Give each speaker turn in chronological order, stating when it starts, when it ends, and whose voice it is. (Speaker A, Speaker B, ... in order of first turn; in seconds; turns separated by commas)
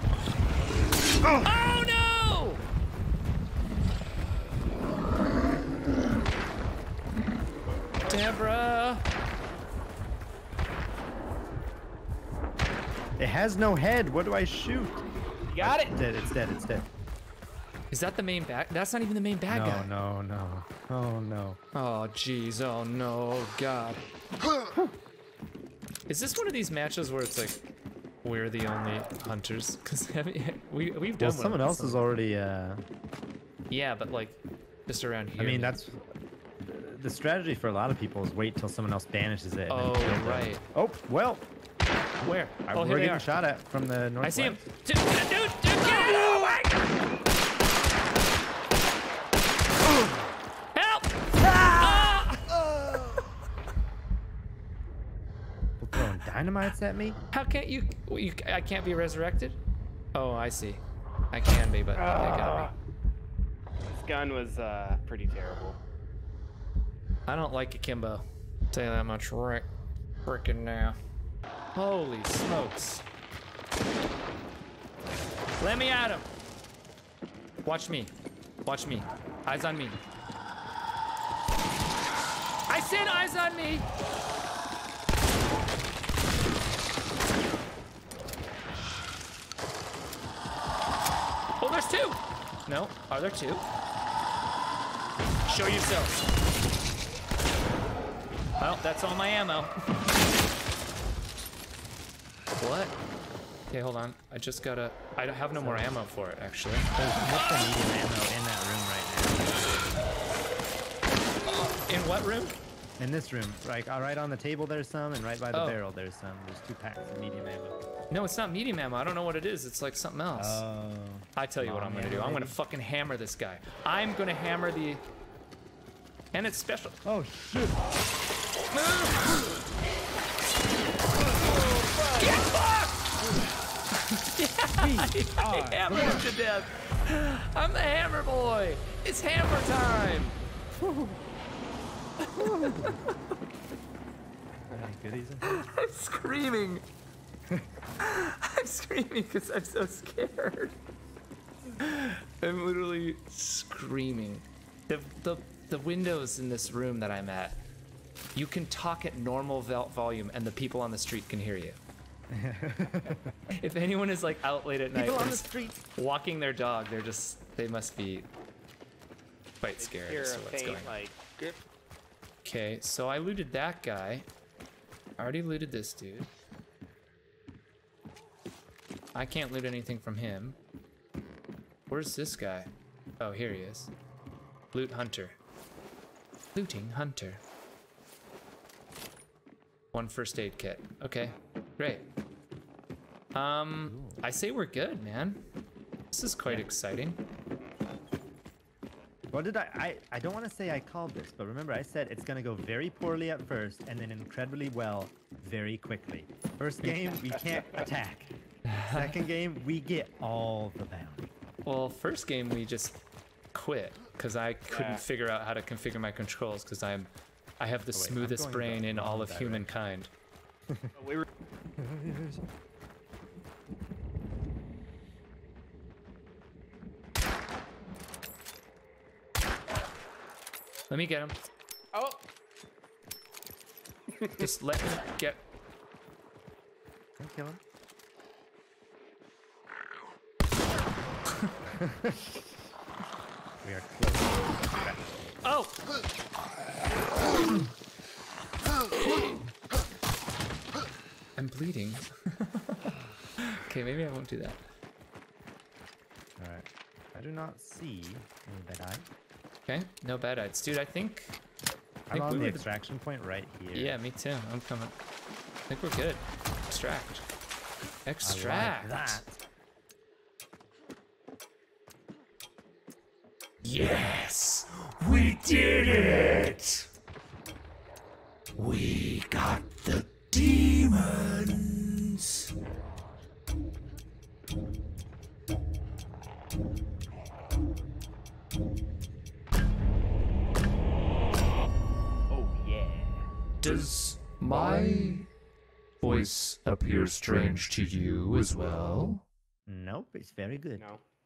Speaker A: 1.4-2.6, Speaker A: 8.1-9.0, Speaker B: 13.2-15.1, Speaker C: 15.5-16.0, Speaker B: 15.6-16.9, Speaker A: 17.9-19.9, Speaker B: 19.5-21.6, Speaker A: 21.7-24.0, Speaker A: 26.1-27.7, Speaker A: 28.2-32.2, Speaker B: 31.2-32.8, Speaker A: 33.7-35.7, Speaker B: 35.4-36.0, Speaker B: 36.7-41.5, Speaker A: 39.7-40.6, Speaker A: 42.2-43.3, Speaker B: 42.7-44.6, Speaker A: 44.2-46.8, Speaker A: 50.7-52.6, Speaker B: 51.4-52.3, Speaker B: 55.8-57.2, Speaker A: 57.3-59.6, Speaker A: 60.1-62.7, Speaker C: 62.0-62.7, Speaker C: 63.9-65.8, Speaker A: 67.3-69.7, Speaker A: 70.2-71.0, Speaker A: 71.8-73.0, Speaker A: 75.6-76.3, Speaker A: 77.7-78.1, Speaker A: 78.7-80.0, Speaker A: 82.7-83.9, Speaker A: 91.6-93.7, Speaker A: 95.5-96.2, Speaker A: 98.6-99.7, Speaker A: 102.6-103.0, Speaker A: 103.7-107.7, Speaker B: 105.5-105.9, Speaker B: 107.0-110.0, Speaker A: 111.4-112.6, Speaker B: 113.0-117.8, Speaker A: 115.5-115.8, Speaker A: 118.1-120.6, Speaker B: 120.3-122.6, Speaker A: 121.4-125.0, Speaker A: 126.3-127.0, Speaker B: 127.0-127.8, Speaker A: 128.7-129.5, Speaker B: 131.5-132.4, Speaker A: 132.2-133.1, Speaker A: 134.0-140.4, Speaker B: 134.8-136.3, Speaker B: 140.8-141.2, Speaker A: 142.3-143.2, Speaker B: 142.4-143.0, Speaker B: 144.7-145.5, Speaker A: 145.4-146.8, Speaker A: 148.0-150.8, Speaker A: 151.8-157.6, Speaker A: 158.3-161.8, Speaker B: 162.3-163.3, Speaker A: 163.6-168.3, Speaker B: 164.9-165.8, Speaker A: 169.6-170.9, Speaker C: 169.8-171.6, Speaker A: 172.4-174.3, Speaker A: 175.2-176.3, Speaker A: 179.1-180.6, Speaker A: 181.9-182.7, Speaker A: 183.2-183.9, Speaker A: 184.7-185.4, Speaker A: 186.5-187.4, Speaker A: 189.9-192.1, Speaker A: 193.3-195.4, Speaker B: 193.8-194.2, Speaker A: 196.1-197.2, Speaker B: 199.3-211.3, Speaker A: 206.8-207.2, Speaker A: 208.7-209.2, Speaker A: 211.7-213.0, Speaker A: 213.5-220.1, Speaker C: 214.7-215.0, Speaker B: 217.9-219.7, Speaker B: 220.7-220.9, Speaker C: 221.0-221.3, Speaker B: 221.8-222.4, Speaker A: 230.9-231.4, Speaker C: 231.9-232.2, Speaker C: 234.2-234.5, Speaker A: 234.4-235.4, Speaker B: 237.2-237.6, Speaker B: 241.7-242.3, Speaker B: 243.6-245.0, Speaker A: 245.4-245.8, Speaker A: 251.4-252.9, Speaker A: 253.4-254.6, Speaker B: 256.4-259.1, Speaker A: 259.7-261.4, Speaker A: 262.1-262.7, Speaker B: 262.1-264.0, Speaker A: 263.7-264.9, Speaker A: 265.7-267.3, Speaker A: 268.1-269.2, Speaker B: 268.2-269.4, Speaker A: 273.6-276.9, Speaker A: 278.6-282.4, Speaker C: 292.3-293.3, Speaker A: 293.6-295.3, Speaker A: 296.0-299.2, Speaker B: 299.7-300.9, Speaker C: 300.8-301.0